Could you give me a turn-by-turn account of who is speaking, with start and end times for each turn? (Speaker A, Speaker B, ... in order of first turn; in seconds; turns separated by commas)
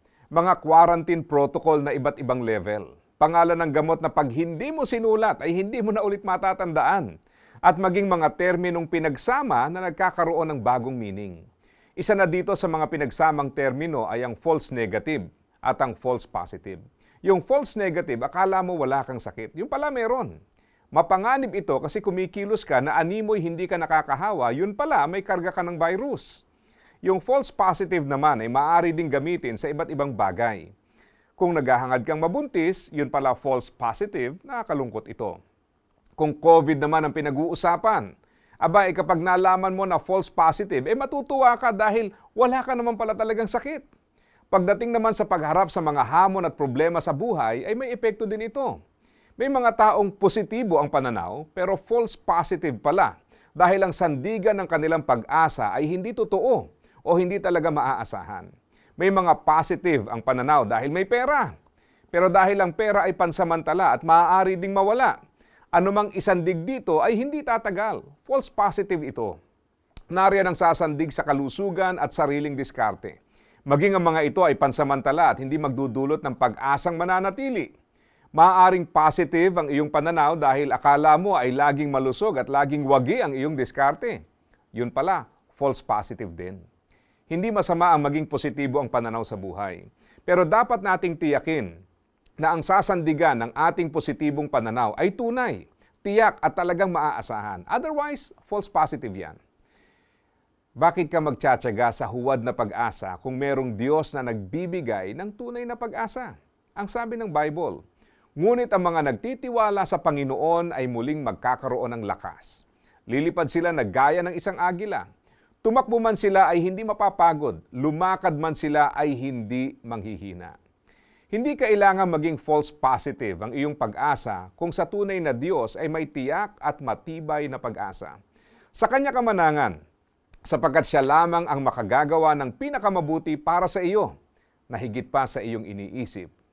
Speaker A: 0.3-7.1, Speaker A: 7.7-11.4, Speaker A: 12.0-20.4, Speaker A: 21.0-26.4, Speaker A: 27.1-30.7, Speaker A: 31.4-35.4, Speaker A: 36.2-38.1, Speaker A: 38.6-43.9, Speaker A: 44.5-48.8, Speaker A: 49.4-61.5, Speaker A: 62.1-65.2, Speaker A: 65.8-69.4, Speaker A: 70.1-73.2, Speaker A: 73.7-77.7, Speaker A: 78.4-84.2, Speaker A: 84.8-86.6, Speaker A: 87.3-91.7, Speaker A: 92.4-99.4, Speaker A: 100.8-107.8, Speaker A: 108.4-115.1, Speaker A: 115.6-120.6, Speaker A: 121.3-128.2, Speaker A: 128.8-129.8, Speaker A: 130.5-134.1, Speaker A: 134.7-136.3